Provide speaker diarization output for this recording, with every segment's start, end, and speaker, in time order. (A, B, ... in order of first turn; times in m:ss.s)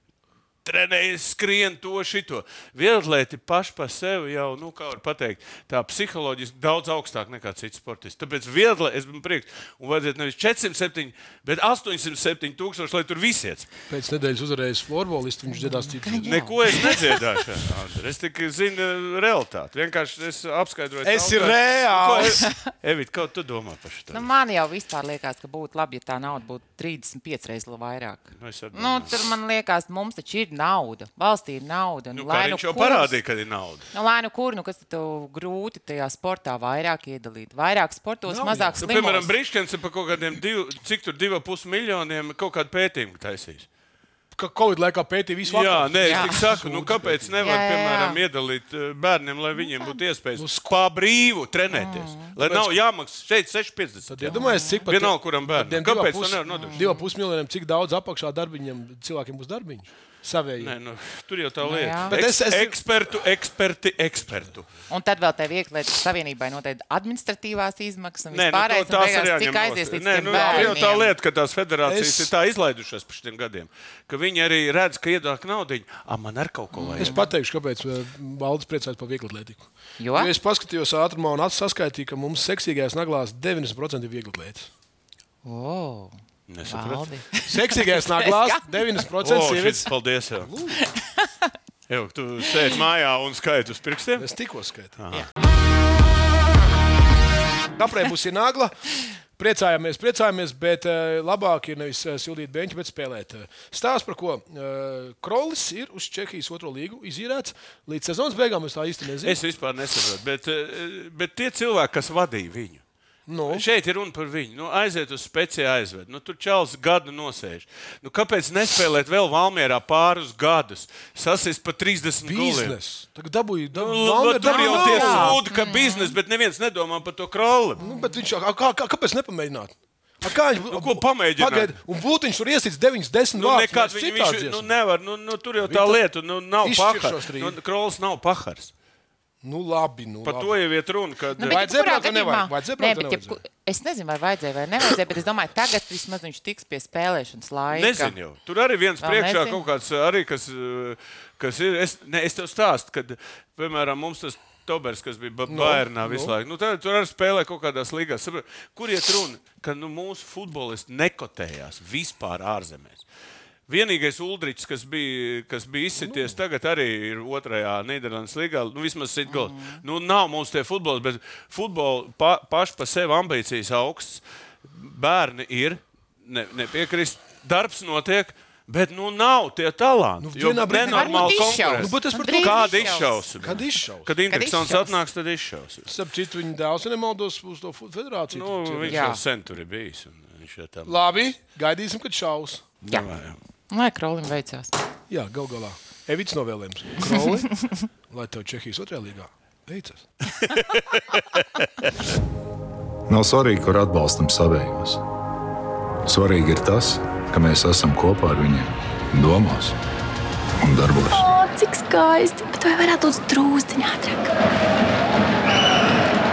0:00.6-0:13.7 A
0:13.9-0:16.4 B
0:15.5-0:17.2 C
0:16.2-0:24.3 A
0:21.0-0:22.4 B
0:24.1-0:33.2 C
0:28.4-0:29.1 A
0:32.1-0:33.9 A
0:33.9-0:39.3 C
0:38.3-0:38.9 B
0:38.8-0:43.7 A
0:44.3-0:47.4 B
0:45.4-0:56.9 A
0:46.0-0:46.4 C
0:47.4-0:48.2 C
0:49.6-0:50.0 C
0:50.4-0:50.7 B
0:51.7-0:52.3 C
0:52.4-0:52.8 B
0:54.1-1:00.7 B
0:54.3-0:54.8 C
0:56.5-0:57.1 C
1:00.6-1:04.7 A
1:01.6-1:02.2 C
1:02.1-1:02.8 B
1:04.9-1:11.1 C
1:08.3-1:17.2 A
1:10.3-1:10.8 B
1:11.8-1:12.3 B
1:16.7-1:17.2 C
1:17.0-1:24.7 B
1:20.0-1:20.3 C
1:25.4-1:28.7 C
1:26.5-1:27.1 A
1:27.5-1:30.8 B
1:29.2-1:30.5 A
1:31.0-1:31.3 C
1:31.9-1:34.3 A
1:34.2-1:35.0 B
1:35.0-1:35.3 A
1:37.8-1:49.4 B
1:49.2-1:52.8 A
1:53.3-1:53.6 B
1:53.5-2:02.8 A
2:02.2-2:05.4 B
2:03.7-2:07.8 A
2:04.4-2:06.2 C
2:07.8-2:08.2 C
2:07.8-2:14.7 B
2:10.7-2:11.7 A
2:13.4-2:18.7 A
2:15.6-2:16.0 B
2:16.6-2:17.6 B
2:19.4-2:20.5 B
2:20.2-2:21.6 A
2:21.4-2:28.2 C
2:21.4-2:23.4 B
2:27.7-2:43.0 A
2:29.0-2:29.6 C
2:35.5-2:36.3 B
2:43.7-3:05.9 A
2:46.0-2:46.3 B
2:49.3-2:49.8 C
3:00.2-3:04.1 B
3:00.8-3:03.2 C
3:04.3-3:04.9 C
3:05.9-3:09.1 B
3:08.3-3:11.1 A
3:08.9-3:09.2 C
3:10.9-3:12.7 B
3:12.8-3:13.4 A
3:13.7-3:14.8 C
3:15.1-3:20.1 B
3:20.4-3:21.4 A
3:23.1-3:25.0 D
3:26.0-3:29.8 D
3:30.6-3:31.3 D
3:31.1-3:34.3 E